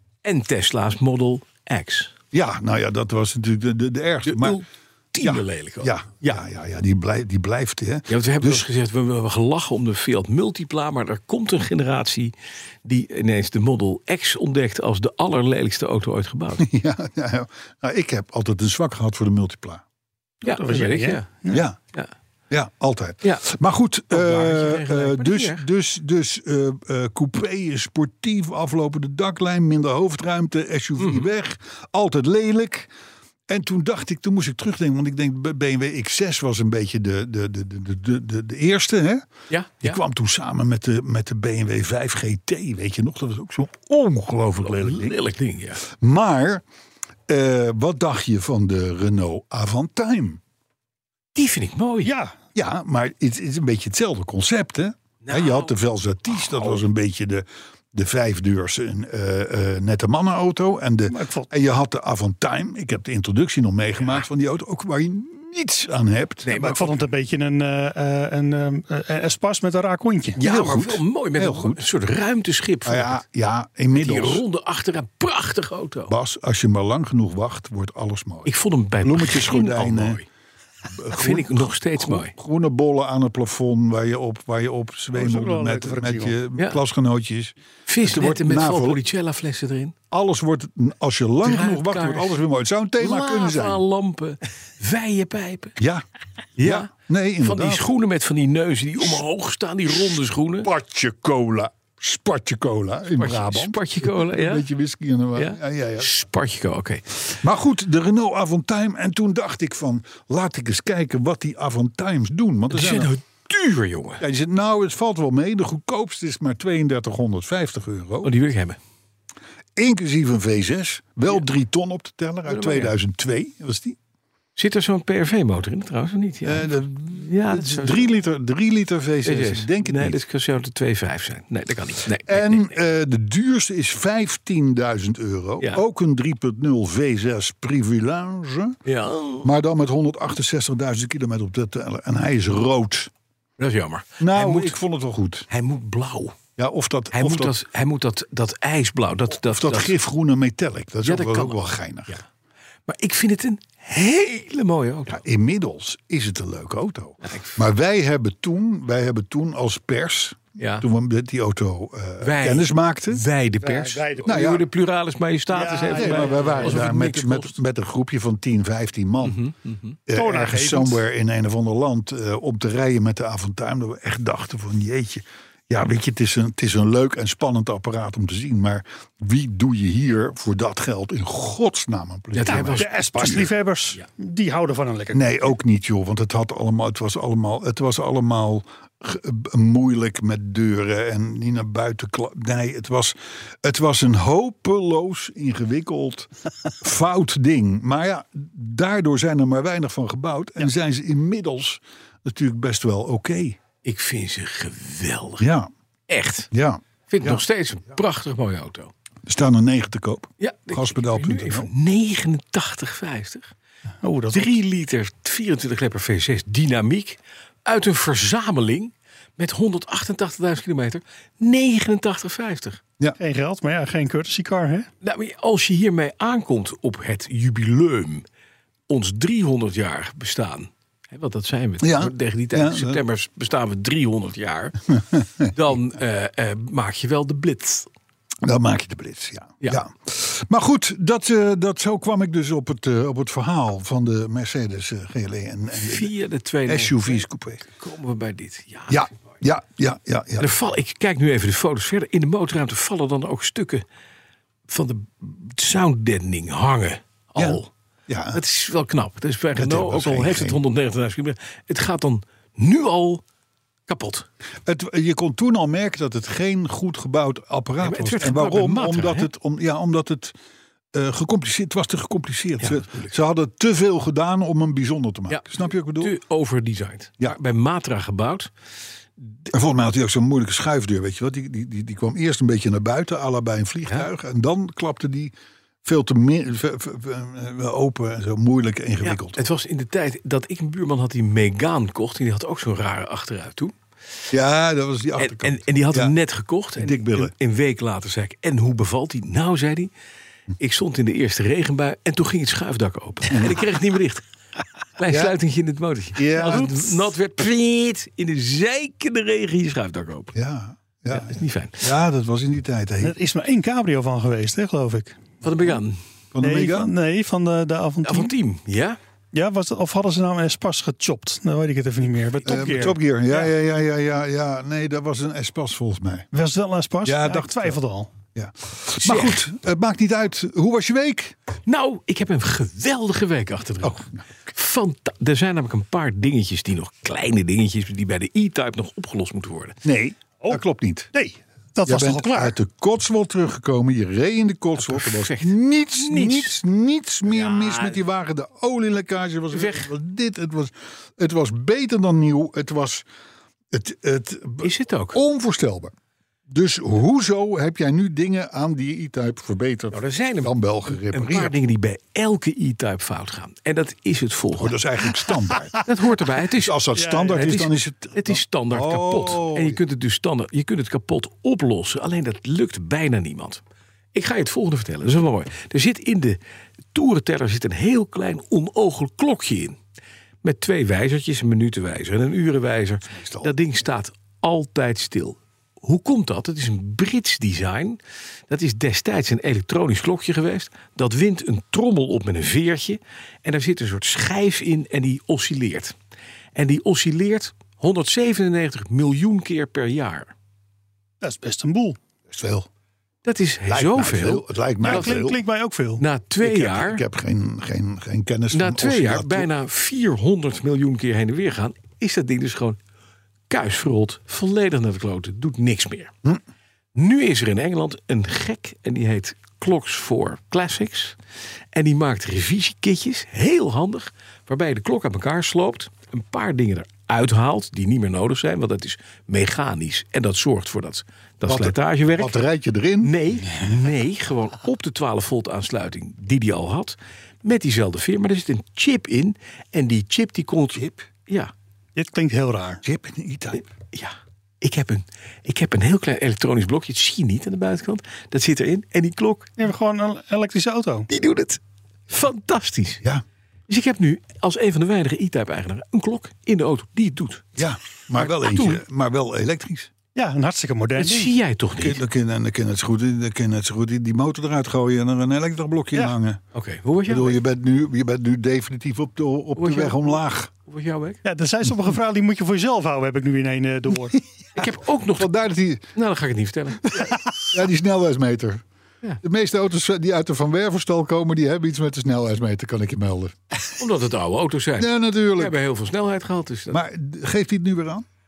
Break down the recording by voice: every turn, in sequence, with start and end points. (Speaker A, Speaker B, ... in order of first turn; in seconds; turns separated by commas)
Speaker A: 0.2-2.1, Speaker B: 2.3-4.6, Speaker A: 4.2-6.4, Speaker B: 5.2-8.7, Speaker A: 8.1-12.3, Speaker A: 12.8-16.7, Speaker B: 16.6-19.8, Speaker C: 20.4-21.6, Speaker A: 20.4-22.1, Speaker B: 21.5-21.8, Speaker B: 22.5-32.9, Speaker A: 24.1-25.6, Speaker A: 31.0-31.3, Speaker B: 33.5-39.3, Speaker A: 39.5-40.0, Speaker B: 39.8-45.1, Speaker A: 44.7-45.8, Speaker B: 45.9-46.6, Speaker B: 47.3-50.4, Speaker A: 51.4-52.1, Speaker C: 52.0-52.4, Speaker B: 52.5-66.5, Speaker A: 55.2-55.8, Speaker A: 56.3-56.8, Speaker C: 61.1-61.5, Speaker A: 66.5-67.0, Speaker C: 66.6-70.4, Speaker A: 70.4-73.2, Speaker B: 70.4-71.8, Speaker B: 72.8-74.4, Speaker A: 73.9-76.1, Speaker B: 76.1-80.2, Speaker A: 78.5-80.2, Speaker B: 80.8-89.0, Speaker A: 81.1-82.3, Speaker C: 85.2-86.4, Speaker A: 87.9-90.0, Speaker B: 90.1-93.8, Speaker A: 91.4-92.4, Speaker A: 93.0-95.8, Speaker B: 95.8-96.0, Speaker A: 96.6-100.7, Speaker B: 96.6-97.8, Speaker B: 100.6-106.1, Speaker A: 103.2-104.7, Speaker A: 105.4-107.2, Speaker B: 107.3-113.1, Speaker A: 112.7-114.2, Speaker B: 114.2-118.3, Speaker A: 118.2-118.8, Speaker B: 119.8-124.0, Speaker A: 122.5-122.9, Speaker A: 124.6-128.1, Speaker B: 126.4-130.2, Speaker A: 129.2-132.7, Speaker B: 132.3-138.8, Speaker A: 138.9-139.5, Speaker B: 139.4-143.1, Speaker A: 143.6-144.8, Speaker B: 144.2-145.5, Speaker A: 145.5-146.4, Speaker B: 146.6-147.6, Speaker A: 147.1-149.9, Speaker B: 149.4-152.2, Speaker A: 151.0-152.2, Speaker A: 152.9-155.2, Speaker B: 155.1-163.2, Speaker A: 157.2-157.6, Speaker A: 160.6-160.9, Speaker A: 162.2-167.6, Speaker C: 163.6-164.4, Speaker B: 164.2-164.7, Speaker C: 165.5-166.9, Speaker B: 165.9-169.4, Speaker A: 169.2-170.0, Speaker B: 170.1-183.5, Speaker C: 170.1-171.0, Speaker A: 182.3-184.0, Speaker C: 182.4-185.4, Speaker B: 185.1-203.6, Speaker A: 203.8-205.5, Speaker B: 205.4-205.7, Speaker A: 206.1-206.5, Speaker B: 206.5-207.4, Speaker A: 207.1-208.9, Speaker B: 209.3-211.7, Speaker A: 210.4-213.5, Speaker C: 214.0-214.6, Speaker A: 214.3-222.8, Speaker C: 223.2-224.9, Speaker A: 225.0-228.2, Speaker A: 228.9-234.8, Speaker B: 231.8-233.0, Speaker B: 235.0-235.5, Speaker A: 235.5-237.9, Speaker B: 238.4-246.1, Speaker A: 245.8-249.1, Speaker B: 246.7-247.7, Speaker B: 248.9-250.5, Speaker A: 250.4-253.8, Speaker A: 254.7-257.7, Speaker B: 257.4-258.4, Speaker A: 258.3-263.2, Speaker B: 259.5-260.6, Speaker A: 263.9-264.3, Speaker B: 264.6-270.4, Speaker A: 267.8-269.3, Speaker B: 270.9-276.1, Speaker A: 272.6-273.1, Speaker A: 275.3-278.5, Speaker B: 279.5-285.3, Speaker B: 285.8-289.4, Speaker A: 289.0-293.7, Speaker B: 294.3-296.1, Speaker A: 295.2-299.9, Speaker B: 296.8-297.3, Speaker A: 300.6-304.2, Speaker B: 303.3-303.6, Speaker A: 305.0-310.3, Speaker B: 305.1-305.3, Speaker B: 306.2-306.9, Speaker B: 310.3-313.2, Speaker A: 311.1-311.9, Speaker C: 313.0-315.2, Speaker A: 315.4-316.0, Speaker B: 316.3-316.9, Speaker C: 316.4-318.3, Speaker A: 318.0-319.0, Speaker C: 319.3-323.5, Speaker B: 322.4-326.3, Speaker C: 326.3-328.1, Speaker B: 327.0-327.8, Speaker B: 328.3-331.4, Speaker A: 329.0-329.4, Speaker A: 331.7-339.8, Speaker B: 333.8-334.2, Speaker B: 339.8-341.1, Speaker C: 341.1-342.6, Speaker B: 341.9-353.1, Speaker A: 344.8-346.6, Speaker A: 347.3-348.0, Speaker A: 349.5-349.9, Speaker B: 353.7-355.9, Speaker A: 354.6-355.2, Speaker B: 356.5-361.5, Speaker A: 359.9-364.8, Speaker B: 364.6-365.8, Speaker A: 365.9-373.6, Speaker B: 366.5-369.8, Speaker C: 366.9-367.5, Speaker A: 374.1-376.4, Speaker A: 376.9-379.8, Speaker A: 380.4-395.9, Speaker B: 383.1-383.5, Speaker A: 396.6-400.3, Speaker C: 401.2-402.0, Speaker B: 402.3-402.7, Speaker A: 403.2-405.3, Speaker B: 403.7-405.4, Speaker C: 404.8-406.0, Speaker A: 406.0-407.0, Speaker B: 406.4-409.5, Speaker A: 408.5-412.8, Speaker A: 413.5-416.1, Speaker A: 416.9-421.2, Speaker A: 421.7-432.4, Speaker B: 431.4-433.1, Speaker A: 433.0-441.5, Speaker B: 440.7-441.1, Speaker C: 442.0-442.8, Speaker B: 442.8-443.6, Speaker A: 443.9-449.5, Speaker C: 449.6-451.1, Speaker A: 451.1-453.0, Speaker A: 453.7-457.5, Speaker B: 457.6-459.9, Speaker A: 458.2-458.8, Speaker C: 460.1-461.3, Speaker A: 461.0-462.0, Speaker B: 461.8-466.4, Speaker A: 466.5-467.4, Speaker B: 467.1-470.5, Speaker A: 469.6-471.2, Speaker C: 471.2-474.2, Speaker A: 474.6-475.3, Speaker B: 474.6-475.9, Speaker A: 475.9-477.1, Speaker B: 476.9-478.6, Speaker B: 479.2-483.4, Speaker A: 483.8-486.8, Speaker B: 484.8-485.6, Speaker B: 486.7-488.1